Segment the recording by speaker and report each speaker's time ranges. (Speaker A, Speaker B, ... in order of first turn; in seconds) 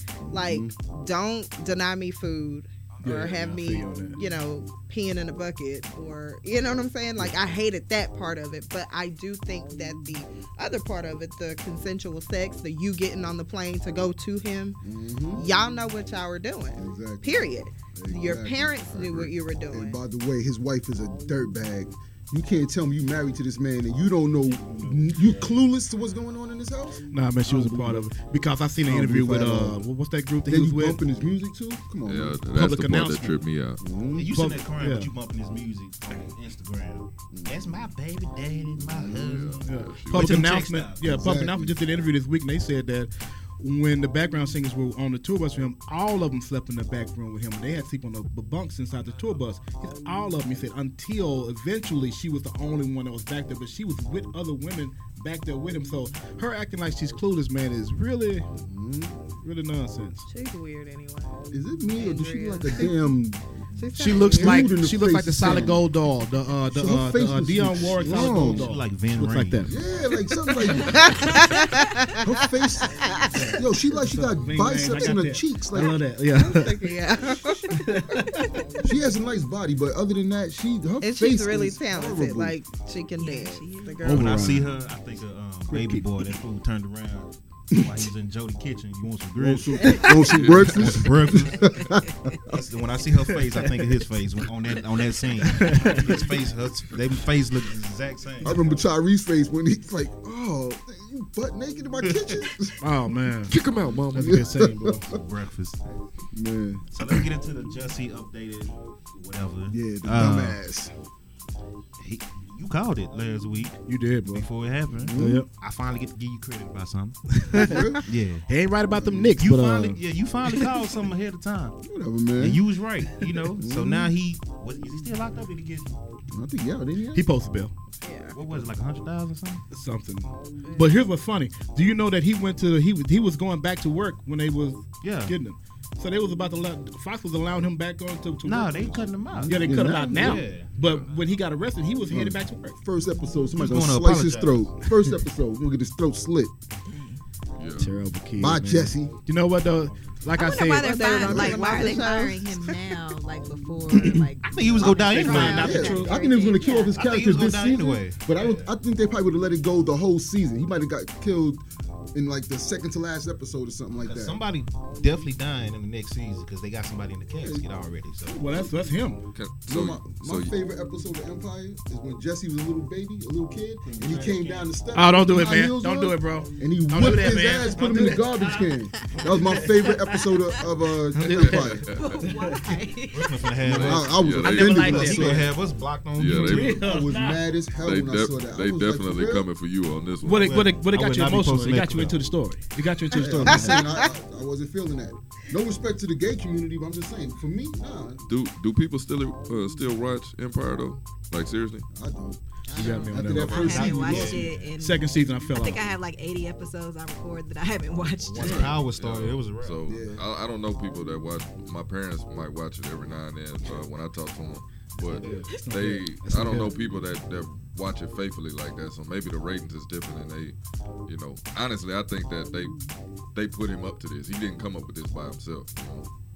Speaker A: 0.2-0.7, 14.8-15.4, 16.8-28.1, 28.8-29.8, 30.5-32.4, 33.8-34.3, 37.3-37.8, 38.8-39.5, 41.0-41.8, 58.6-59.2, 61.5-63.4, 64.0-65.9, 66.7-68.7, 69.7-71.3, 72.2-76.0, 78.8-82.6, 89.4-92.6, 98.4-102.8, 103.5-105.2, 106.3-106.9, 109.7-110.9, 115.0-115.4, 117.5-118.1, 118.9-119.3, 121.8-122.6, 123.6-124.1, 126.3-127.2, 139.3-140.4, 142.1-146.5, 148.3-149.1, 151.2-151.8, 154.8-161.6, 162.1-164.4, 167.4-167.7, 168.2-168.9, 169.7-181.9, 183.6-185.5, 186.5-189.5, 193.1-198.2, 201.9-204.4, 208.4-208.8, 209.9-210.2
Speaker B: 0.3-14.8, 15.3-20.0, 60.3-61.4, 61.9-63.0, 63.8-64.7, 70.5-73.5, 75.7-78.5, 81.0-84.5, 89.8-90.2, 128.0-128.4, 130.6-131.1, 150.7-152.5, 153.9-154.7, 193.4-194.1
Speaker C: 3.0-4.2, 27.1-31.0, 32.5-33.4, 34.3-35.1, 39.6-58.5, 59.4-60.2, 64.0-69.8, 73.3-76.9, 77.7-78.5, 84.0-84.8, 85.7-86.0, 95.5-96.2, 102.8-103.5, 104.1-105.0, 113.9-114.5, 115.1-115.5, 117.4-117.8, 118.5-120.0, 127.1-127.7, 129.7-142.8, 147.8-150.9, 155.2-156.2, 168.3-169.2, 174.9-178.7, 179.2-179.9, 181.1-182.7, 184.4-185.5, 186.3-187.4, 190.2-193.9, 202.7-205.8, 215.2-216.8
Speaker D: 24.6-25.6, 34.1-41.3, 68.0-69.8, 84.0-91.7, 92.4-98.8, 102.0-102.5, 105.0-105.8, 106.9-110.6, 112.0-117.2, 118.0-118.5, 119.4-121.8, 122.4-125.9, 128.3-129.7, 135.0-135.3, 138.4-140.7, 143.5-144.7, 154.4-155.9, 156.9-158.7, 164.0-168.4, 173.8-174.7, 183.1-186.8, 190.3-192.2, 203.6-204.7, 208.2-209.8, 214.9-215.5
Speaker E: 32.0-33.8, 39.2-40.4, 90.3-90.7, 103.8-104.2, 140.8-141.1, 147.6-147.9, 169.3-170.5, 181.2-182.2, 183.7-185.1, 186.2-186.8, 187.8-190.6, 198.3-201.8, 208.4-222.8, 223.3-226.1
Speaker F: 83.2-84.2, 146.8-147.2, 150.3-157.0, 181.9-183.5, 202.7-208.7